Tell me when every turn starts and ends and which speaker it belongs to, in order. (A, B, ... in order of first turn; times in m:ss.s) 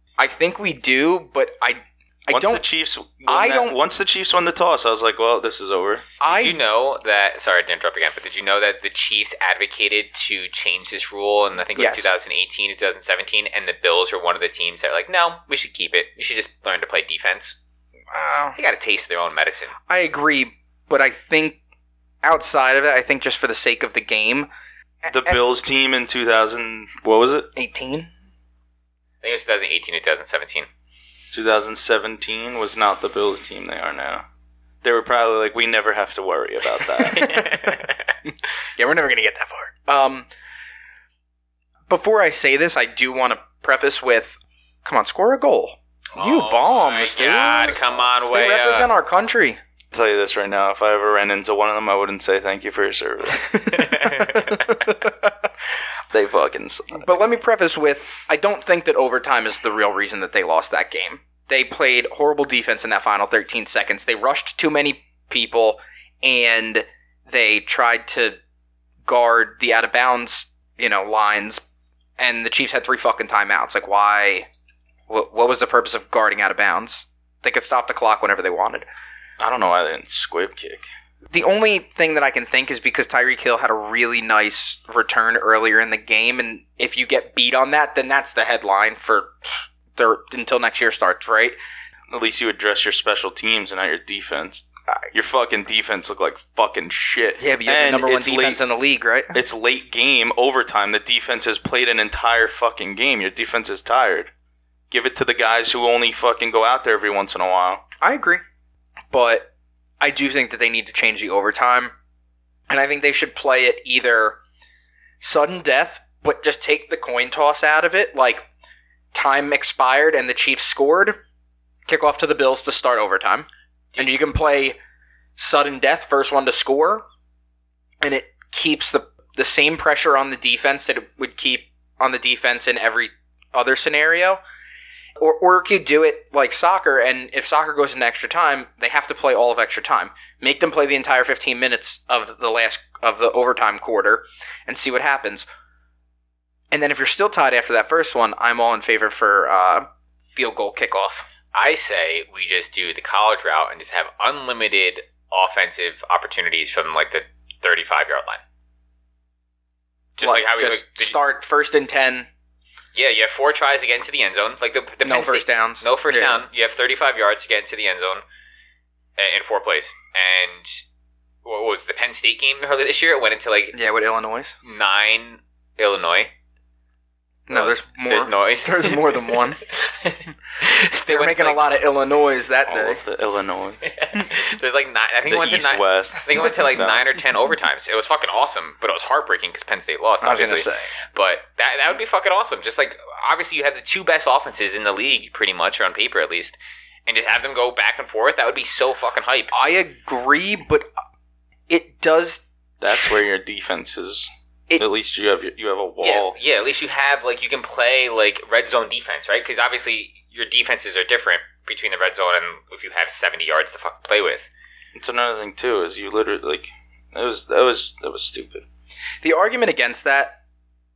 0:00.2-0:02.6 A
0:02.3-0:06.1 B
0:03.3-0:03.8 A
0:06.2-0:06.6 A
0:06.3-0:17.6 C
0:11.8-0:12.1 A
0:18.1-0:18.6 A
0:18.6-0:19.7 C
0:19.9-0:21.6 A
0:22.2-0:24.5 A
0:25.0-0:25.4 A
0:25.1-0:27.5 B
0:27.6-0:28.1 A
0:29.2-0:30.7 C
0:31.3-0:34.2 B
0:34.8-0:37.3 B
0:37.0-0:40.3 A
0:37.1-0:38.0 C
0:41.9-0:49.6 A
0:46.2-0:48.9 C
0:49.9-0:53.9 B
0:53.5-0:55.3 A
0:53.7-0:54.7 C
0:56.1-0:57.0 B
0:56.9-1:08.4 A
1:09.1-1:11.6 A
1:12.2-1:14.5 A
1:15.1-1:18.9 A
1:19.4-1:20.9 B
1:21.3-1:31.6 A
1:32.1-1:38.6 B
1:37.4-1:39.4 A
1:39.3-1:44.3 B
1:44.9-1:47.8 B
1:48.0-1:48.4 A
1:49.1-1:49.5 A
1:50.0-1:51.9 A
1:52.7-1:54.4 A
1:55.2-1:58.5 A
1:59.1-2:01.2 A
2:01.9-2:04.8 A
2:05.4-2:07.0 A
2:08.0-2:14.4 A
2:15.2-2:25.5 A
2:26.7-2:31.3 A
2:31.5-2:38.4 C
2:40.2-2:41.2 C
2:40.2-2:42.3 A
2:43.0-2:48.2 C
2:45.0-2:46.4 A
2:49.2-2:50.8 C
2:51.4-2:53.8 C
2:53.7-2:54.5 A
2:54.6-2:56.3 C
2:57.5-2:59.6 A
2:57.5-3:01.8 C
3:01.0-3:03.0 A
3:02.7-3:03.9 B
3:03.8-3:19.5 C
3:05.3-3:07.1 B
3:10.2-3:10.9 A
3:19.5-3:20.9 A
3:21.7-3:23.2 A
3:22.8-3:26.4 B
3:26.0-3:34.5 C
3:35.0-3:38.7 B
3:39.2-3:40.4 A